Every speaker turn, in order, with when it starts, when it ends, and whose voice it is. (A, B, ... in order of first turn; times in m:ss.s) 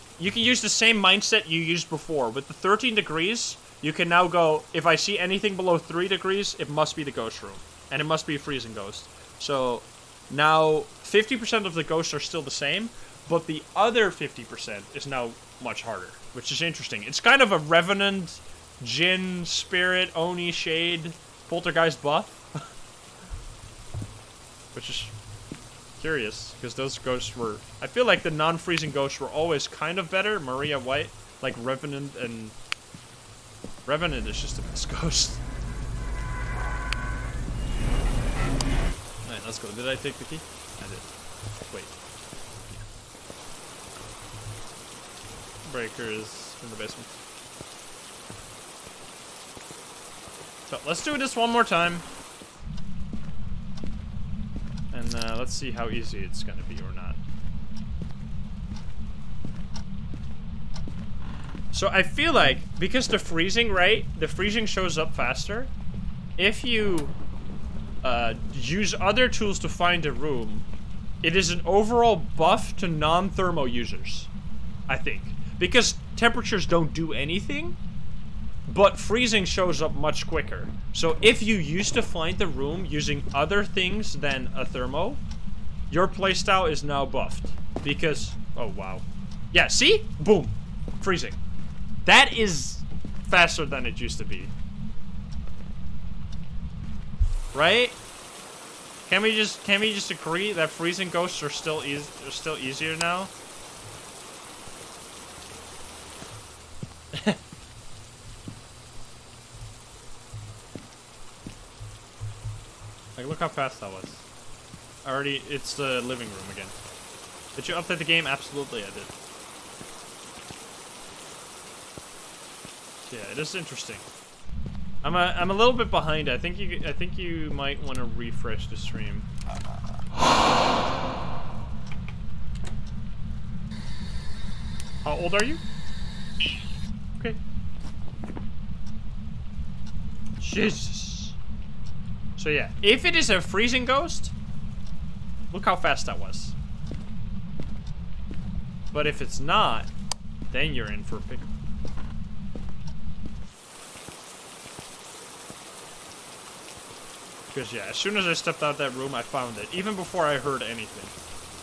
0:00.2-0:22.6 A
0:24.7-0:25.1 A
0:26.0-0:32.6 A
0:33.8-0:35.4 A
0:39.2-0:41.1 A
0:45.6-0:47.2 A
0:50.7-0:52.1 A
0:54.9-0:57.2 A
1:01.7-1:05.7 A
1:06.4-1:07.1 A
1:08.0-1:10.6 A
1:11.2-1:14.3 A
1:14.9-1:17.8 A
1:18.7-1:25.2 A
1:25.9-1:31.4 A
1:32.0-1:34.5 A
1:37.5-1:38.0 A
1:39.0-1:43.3 A
1:53.2-1:54.3 A
1:55.0-1:56.7 A
1:57.5-1:59.1 A
2:03.0-2:04.0 A
2:05.0-2:09.3 A
2:15.0-2:15.6 A
2:20.4-2:21.4 A
2:22.4-2:24.3 A
2:25.5-2:26.6 A
2:28.9-2:29.9 A
2:30.5-2:31.5 A
2:37.5-2:41.1 A